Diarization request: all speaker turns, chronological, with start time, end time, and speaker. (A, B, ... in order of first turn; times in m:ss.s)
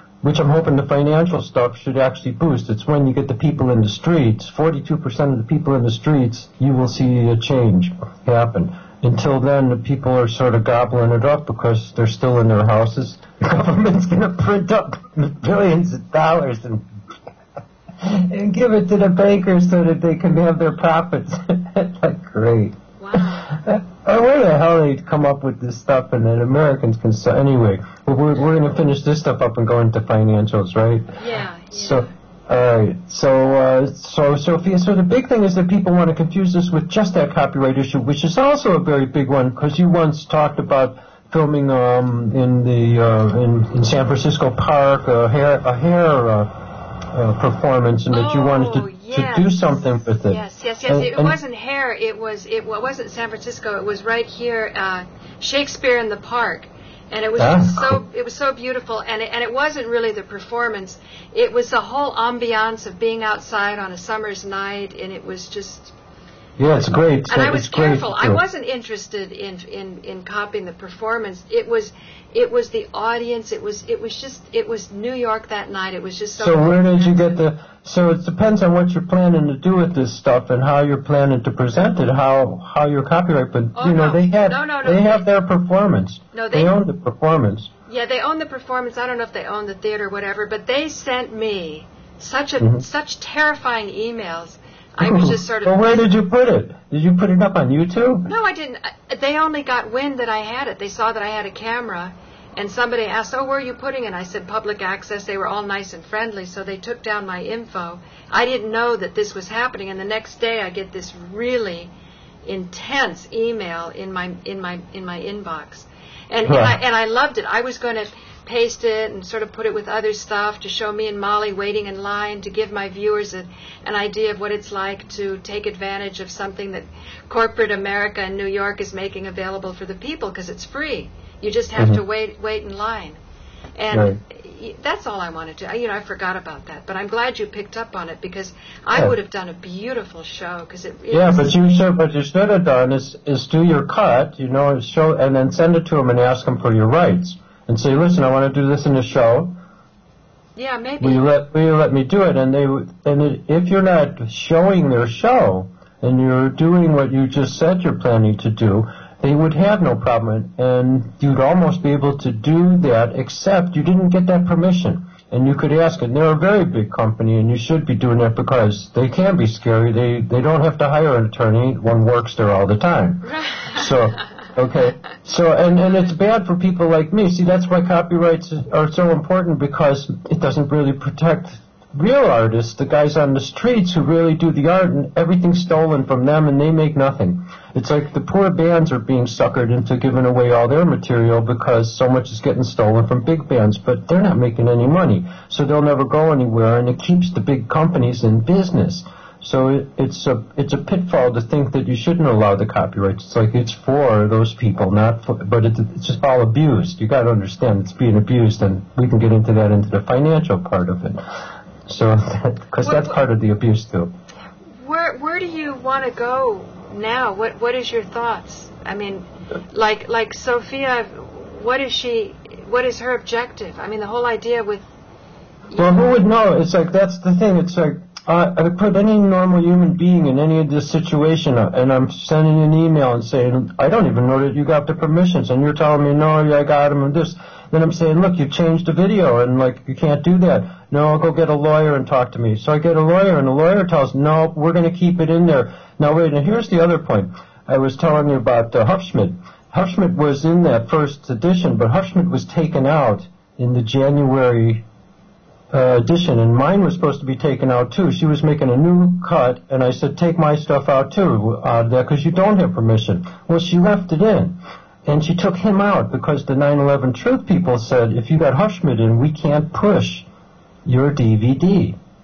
0:00.2-0:16.8 A
0:18.0-0:31.1 A
0:23.0-0:23.6 B
0:31.2-0:32.1 B
0:31.7-0:51.4 A
0:48.1-0:49.6 B
0:50.2-1:05.9 B
0:57.4-0:58.0 A
1:06.6-1:08.4 A
1:07.3-1:17.4 B
1:16.4-1:27.7 A
1:23.8-1:25.2 B
1:26.3-1:26.7 B
1:27.9-1:36.1 B
1:35.0-1:38.3 A
1:38.2-1:51.9 B
1:52.4-2:13.2 B
1:56.5-1:56.8 A
2:11.8-2:12.0 A
2:13.8-2:21.6 B
2:13.9-2:14.2 A
2:21.1-2:29.6 A
2:30.6-2:31.2 B
2:31.0-3:31.2 A
2:53.3-2:53.8 B
3:31.8-3:34.1 A
3:32.8-3:33.2 B
3:34.8-3:44.8 B
3:45.7-3:46.2 B
3:45.7-4:14.8 A
4:15.7-4:30.2 A
4:30.8-4:32.0 A